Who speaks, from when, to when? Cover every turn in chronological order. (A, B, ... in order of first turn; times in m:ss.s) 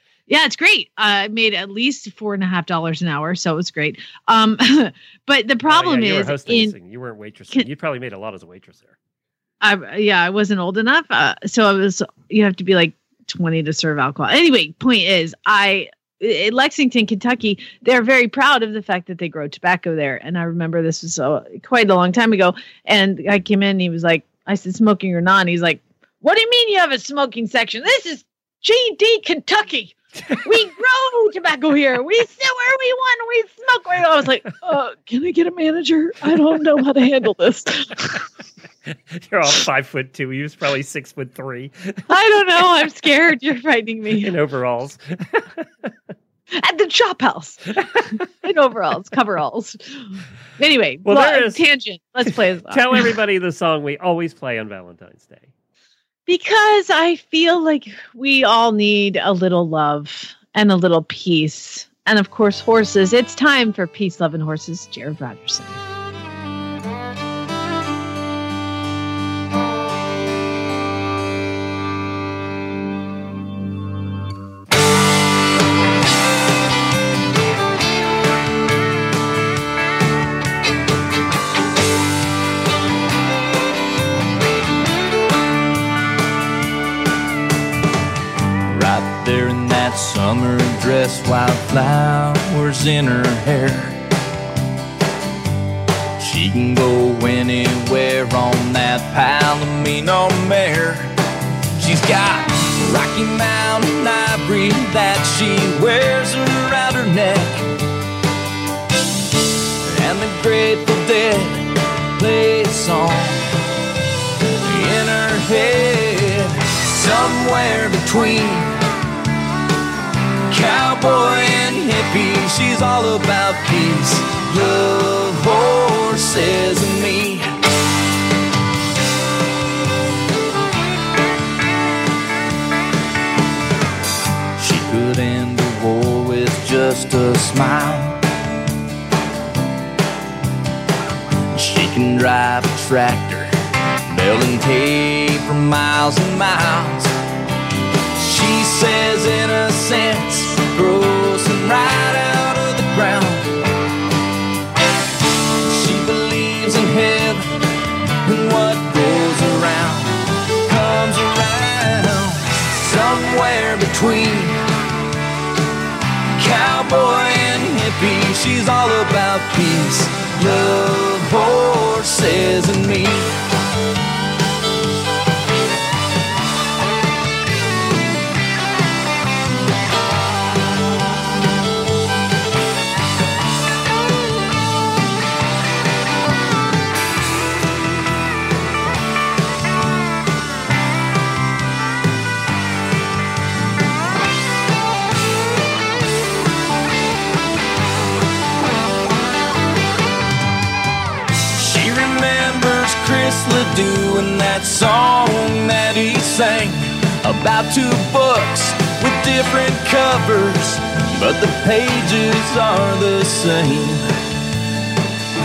0:00.3-0:06.7 A
0:05.7-0:08.9 B
0:09.6-0:38.2 A
0:39.2-0:41.9 B
0:42.1-0:44.3 A
0:44.2-0:45.9 B
0:46.5-0:47.7 A
0:48.4-0:50.0 A
0:50.6-0:53.1 A
0:51.0-0:51.6 B
0:52.3-0:55.5 B
0:56.3-1:05.8 A
1:28.7-1:34.0 C
1:36.2-1:41.1 C
1:41.8-1:47.6 C
1:49.8-1:53.4 C
1:54.6-1:58.7 C
2:00.5-2:07.5 C
2:14.6-2:18.2 C
2:21.5-2:23.5 C
2:24.1-2:27.1 C
2:28.2-2:33.5 C
2:35.6-2:37.5 C
2:38.2-2:44.6 C
2:46.4-2:53.3 C
3:21.5-3:34.0 C